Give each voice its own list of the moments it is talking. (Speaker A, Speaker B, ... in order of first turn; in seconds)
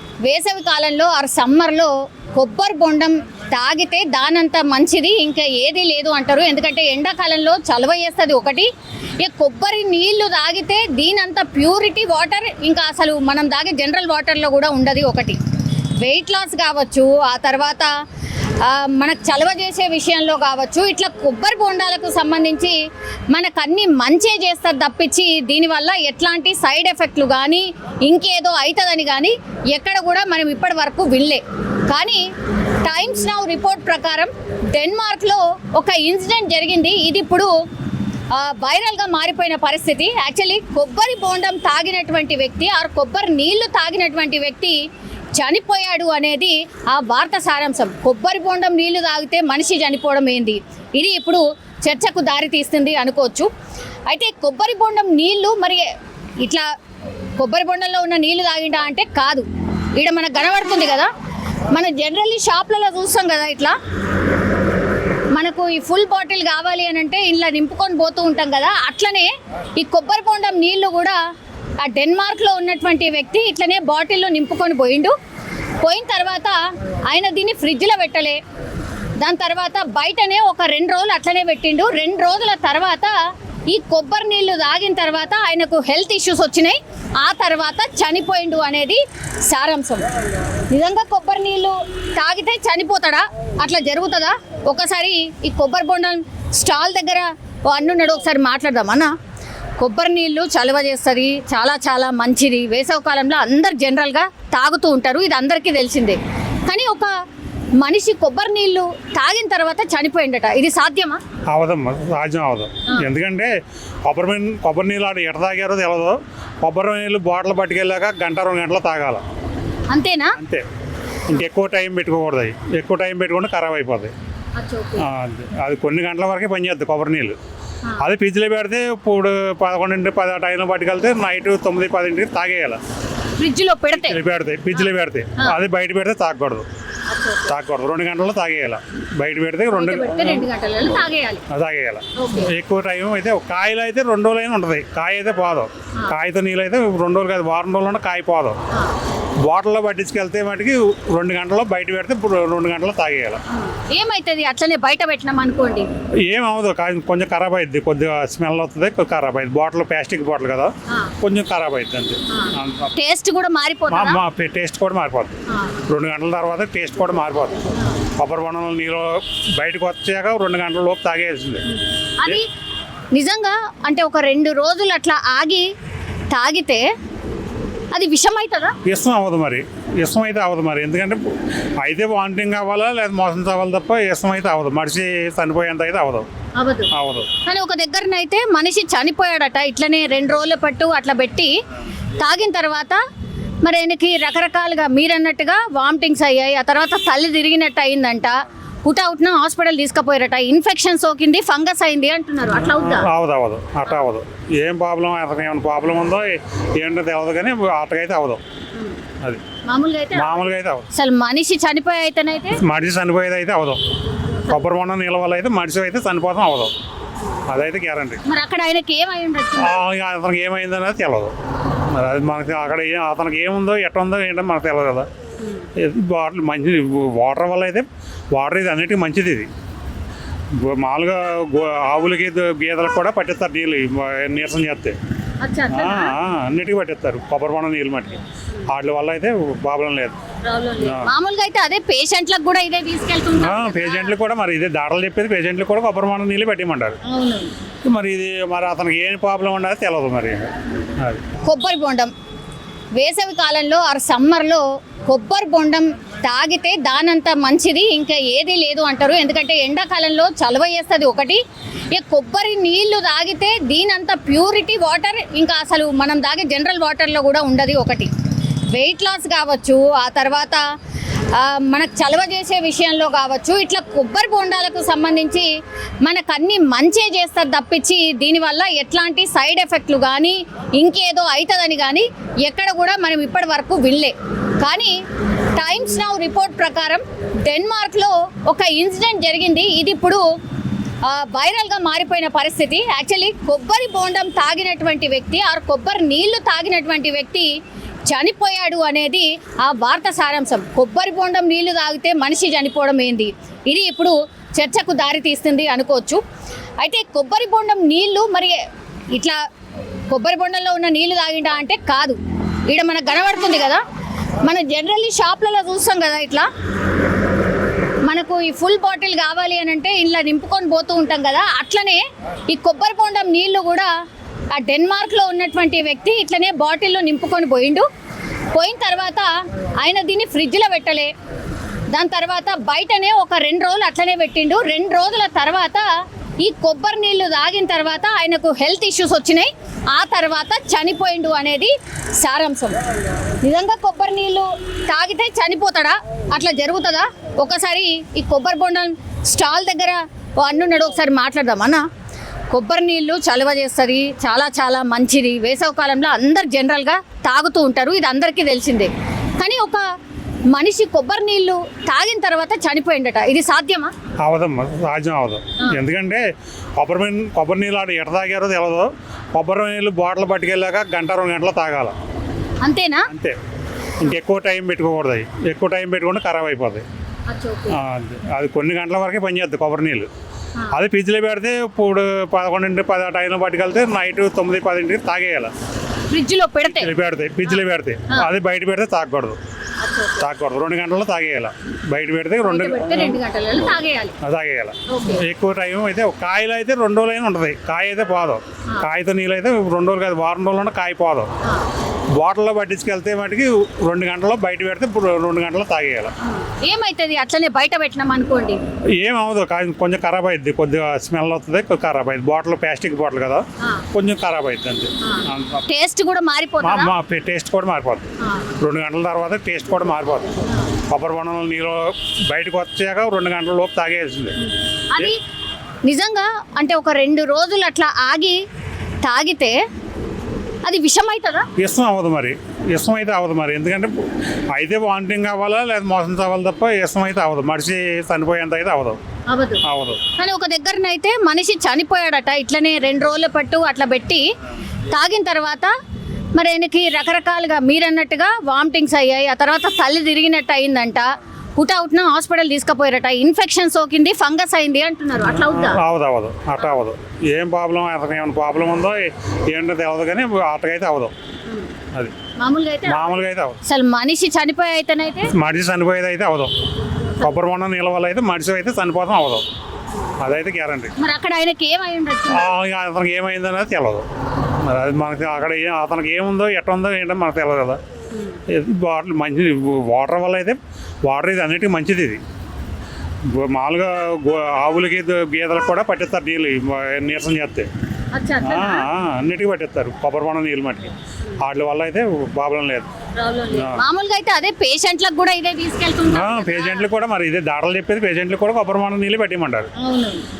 Speaker A: 0.2-15.4, 16.0-17.9, 18.6-22.8, 23.3-32.2, 32.8-37.5, 38.3-44.8, 45.4-53.5, 54.1-55.9, 57.4-59.4, 60.0-61.1, 61.7-63.8, 65.3-71.2, 71.8-75.1, 75.8-76.6, 77.1-78.4, 79.2-83.1, 83.7-90.0, 90.7-99.1, 99.8-107.1, 107.8-111.2, 119.9-120.4, 124.5-125.0, 133.4-134.2, 134.8-135.6, 137.1-137.5, 139.7-141.4, 142.1-142.5, 153.5-155.9, 160.9-161.1, 162.3-164.2, 165.5-165.8, 171.7-172.5, 173.1-175.7, 176.3-176.8, 177.9-178.8, 186.6-186.9, 187.4-191.5, 192.2-193.0, 193.6-203.1, 208.7-209.0, 209.6-212.6, 218.2-219.8, 225.4-225.7, 235.4-236.2, 240.4-244.1, 247.0-247.5, 251.4-252.1, 253.0-261.4, 261.9-268.1, 268.7-270.6, 271.3-275.5, 276.0-284.9, 285.6-290.2, 291.1-297.5, 298.1-306.2, 306.8-308.6, 310.1-312.2, 312.7-313.8, 314.4-316.5, 318.0-323.9, 324.5-327.9, 328.5-331.1, 331.9-335.8, 336.4-342.8, 343.4-351.8, 352.5-359.8, 360.5-363.9, 372.6-373.1, 377.3-377.8, 386.1-386.9, 387.4-388.3, 389.8-390.3, 392.4-394.2, 394.9-395.2, 406.2-408.6, 413.6-413.8, 415.0-416.9, 418.2-418.5, 420.4-420.7, 424.4-425.2, 425.8-428.4, 429.0-429.6, 430.6-431.5, 439.3-439.6, 440.1-444.2, 444.9-445.7, 446.4-455.8, 461.5-461.7, 462.4-465.3, 471.0-472.5, 478.1-478.4, 488.1-488.9, 493.1-496.9, 499.8-500.2
Speaker B: 111.5-113.5, 114.0-119.2, 120.4-120.6, 121.3-124.1, 125.0-127.4, 128.0-132.8, 133.9-136.7, 137.5-140.5, 141.5-148.6, 149.4-153.4, 156.2-162.9, 163.9-165.3, 165.9-171.7, 178.8-181.3, 181.8-186.3, 186.9-187.3, 202.6-208.4, 210.1-210.9, 212.6-213.8, 214.5-216.7, 217.5-218.2, 219.6-221.3, 221.9-225.1, 225.8-229.5, 230.5-234.9, 235.7-240.2, 240.8-241.1, 243.4-247.0, 247.8-251.2, 364.2-366.2, 366.8-371.9, 373.1-373.4, 374.0-376.8, 377.7-380.1, 380.7-385.5, 386.6-389.4, 390.2-393.2, 394.2-401.3, 402.1-406.1, 409.0-415.6, 416.6-418.1, 418.6-424.4, 431.6-434.0, 434.5-439.0, 439.6-440.0, 455.3-461.1, 462.9-463.6, 465.3-466.5, 467.2-469.4, 470.2-470.9, 472.3-474.0, 474.6-477.8, 478.5-482.2, 483.2-487.7, 488.4-492.9, 493.5-493.8, 496.1-499.7